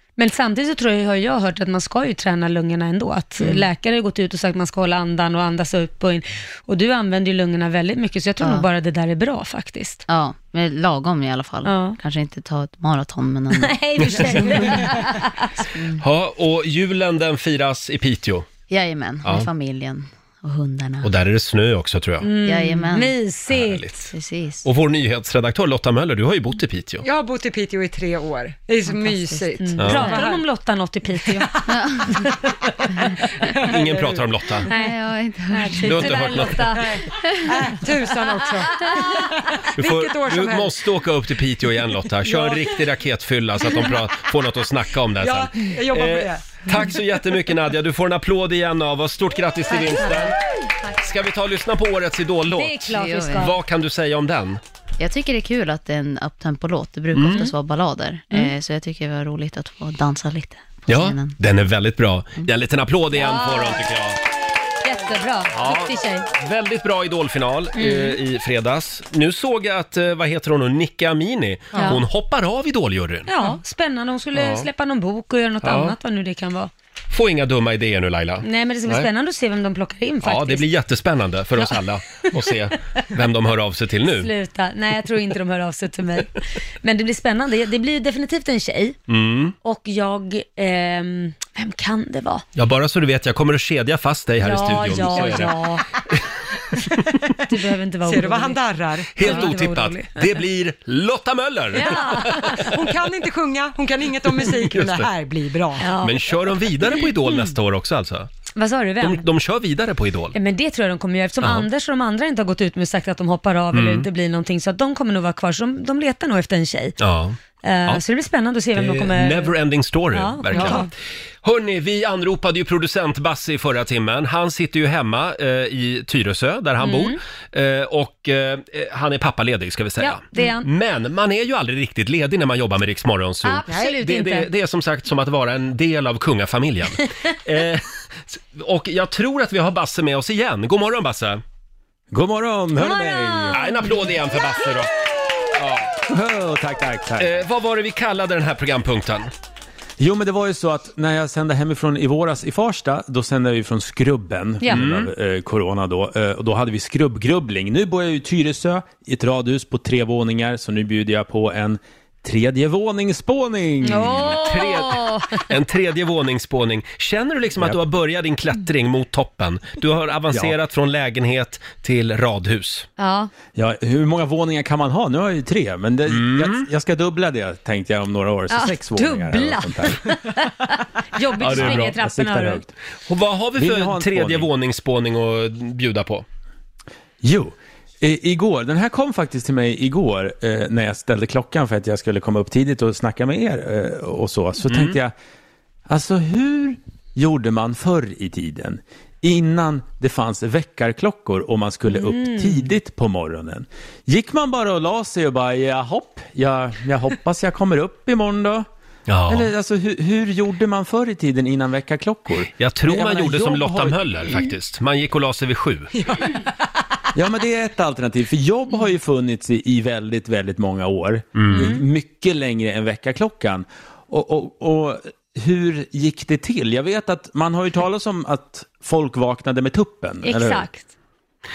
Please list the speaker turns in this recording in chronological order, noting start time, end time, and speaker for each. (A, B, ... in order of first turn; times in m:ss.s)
0:00.2-0:10.0 A
0:03.4-0:03.7 B
0:08.4-0:08.7 B
0:10.1-0:15.0 B
0:11.6-0:12.0 A
0:13.6-0:15.5 A
0:15.7-0:16.0 B
0:16.0-0:18.5 C
0:18.7-0:21.1 B
0:19.2-0:19.5 C
0:21.0-0:22.3 C
0:22.2-0:23.9 A
0:22.4-0:23.2 B
0:23.5-0:24.1 C
0:24.1-0:24.7 B
0:24.6-0:27.1 C
0:27.0-0:30.4 D
0:28.9-0:29.5 B
0:29.6-0:31.5 A
0:29.8-0:30.1 C
0:31.2-0:31.6 D
0:31.7-0:32.2 B
0:33.1-0:34.7 D
0:33.6-0:34.7 C
0:34.7-0:35.0 A
0:34.8-0:36.3 B
0:35.5-0:37.6 A
0:35.8-0:36.8 C
0:36.7-0:40.8 D
0:37.2-0:37.5 B
0:38.8-0:39.2 A
0:39.8-0:50.4 C
0:42.2-0:42.7 D
0:45.2-0:46.9 D
0:49.7-0:50.9 A
0:51.0-0:54.6 C
0:52.6-0:53.6 A
0:52.9-0:53.5 B
0:55.0-1:01.4 B
0:57.1-0:57.5 C
1:00.9-1:04.2 C
1:03.1-1:03.8 A
1:04.8-1:06.3 A
1:05.5-1:13.3 C
1:07.8-1:08.2 A
1:11.7-1:12.0 D
1:11.8-1:12.0 A
1:13.3-1:16.7 A
1:14.3-1:14.7 C
1:15.6-1:16.0 C
1:17.1-1:19.1 C
1:18.4-1:20.7 A
1:20.2-1:24.3 C
1:24.1-1:29.0 A
1:29.1-1:29.5 C
1:29.6-1:32.4 A
1:32.6-1:35.6 C
1:34.4-1:35.8 A
1:37.5-1:38.6 A
1:38.0-1:39.6 D
1:39.2-1:42.8 C
1:39.2-1:40.2 A
1:41.7-1:42.7 A
1:42.6-1:45.9 D
1:44.5-1:45.1 C
1:45.8-1:46.4 A
1:46.0-1:48.3 C
1:46.9-1:47.5 A
1:48.6-1:49.2 A
1:49.0-1:50.4 C
1:50.4-1:57.0 A
1:51.4-1:51.7 C
1:53.7-1:54.1 C
1:57.0-1:58.0 C
1:57.6-1:59.6 A
1:58.8-2:00.9 C
2:00.1-2:00.9 A
2:00.5-2:00.9 D
2:01.4-2:21.4 C
2:06.8-2:07.2 A
2:10.0-2:10.7 A
2:13.4-2:14.5 A
2:13.7-2:14.0 D
2:22.1-2:23.6 E
2:22.8-2:24.1 A
2:23.5-2:24.9 C
2:25.5-2:25.9 C
2:26.1-2:27.4 E
2:27.2-2:29.3 C
2:30.0-2:44.4 E
2:34.7-2:35.1 C
2:43.8-2:45.4 A
2:44.2-2:52.9 C
2:53.0-2:53.3 A
2:53.6-3:00.0 E
2:56.1-2:56.7 C
2:58.5-3:02.6 A
3:01.4-3:02.0 C
3:01.4-3:02.7 E
3:03.1-3:06.2 C
3:03.6-3:04.5 E
3:07.2-3:15.1 E
3:14.6-3:15.0 C
3:15.9-3:28.7 E
3:21.9-3:22.7 A
3:29.1-3:29.5 C
3:29.3-3:34.3 E
3:32.6-3:36.0 C
3:36.0-3:36.4 D
3:37.2-3:50.7 E
3:41.4-3:41.7 C
3:41.5-3:41.8 A
3:50.2-3:50.9 A